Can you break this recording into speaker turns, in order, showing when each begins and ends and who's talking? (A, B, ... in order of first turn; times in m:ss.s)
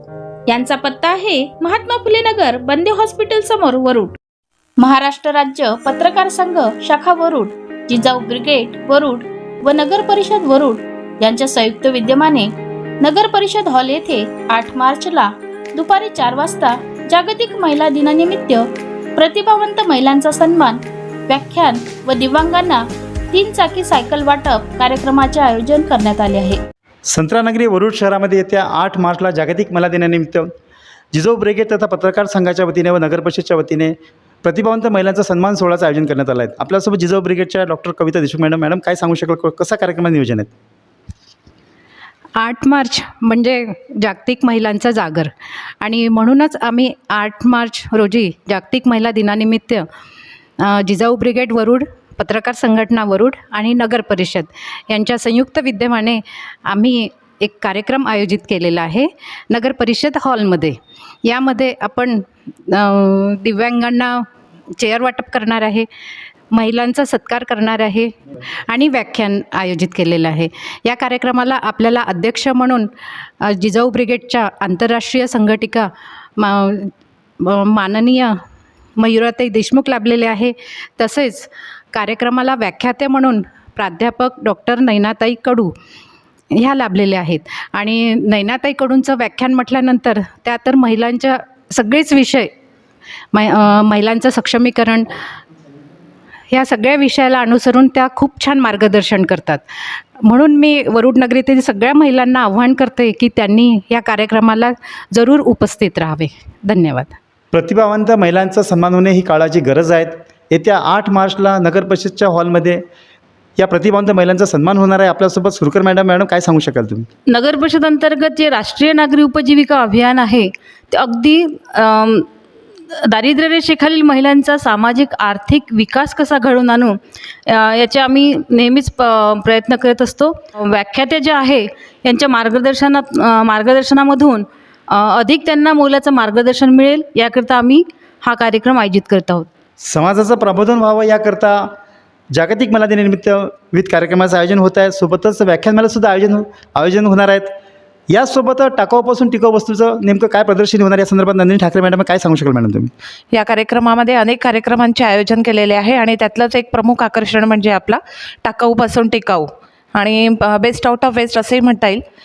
0:00.5-0:04.2 A
0:04.8-0:12.5 A
0:13.0-0:26.6 A
0:27.1-0:30.5 B
0:31.1-0:40.5 B
0:42.4-0:49.9 C
0:50.6-1:05.9 C
1:06.5-1:08.1 C
1:08.7-1:18.4 C
1:19.0-1:25.7 C
1:26.5-1:32.5 C
1:33.3-1:35.1 C
1:36.5-1:39.6 C
1:40.2-1:47.2 C
1:47.5-1:52.8 B
1:53.6-1:57.1 B
1:57.3-2:02.3 D
2:02.9-2:19.5 D
2:19.8-2:21.7 B
2:22.3-2:27.5 B
2:28.1-2:32.9 B
2:33.3-2:42.0 E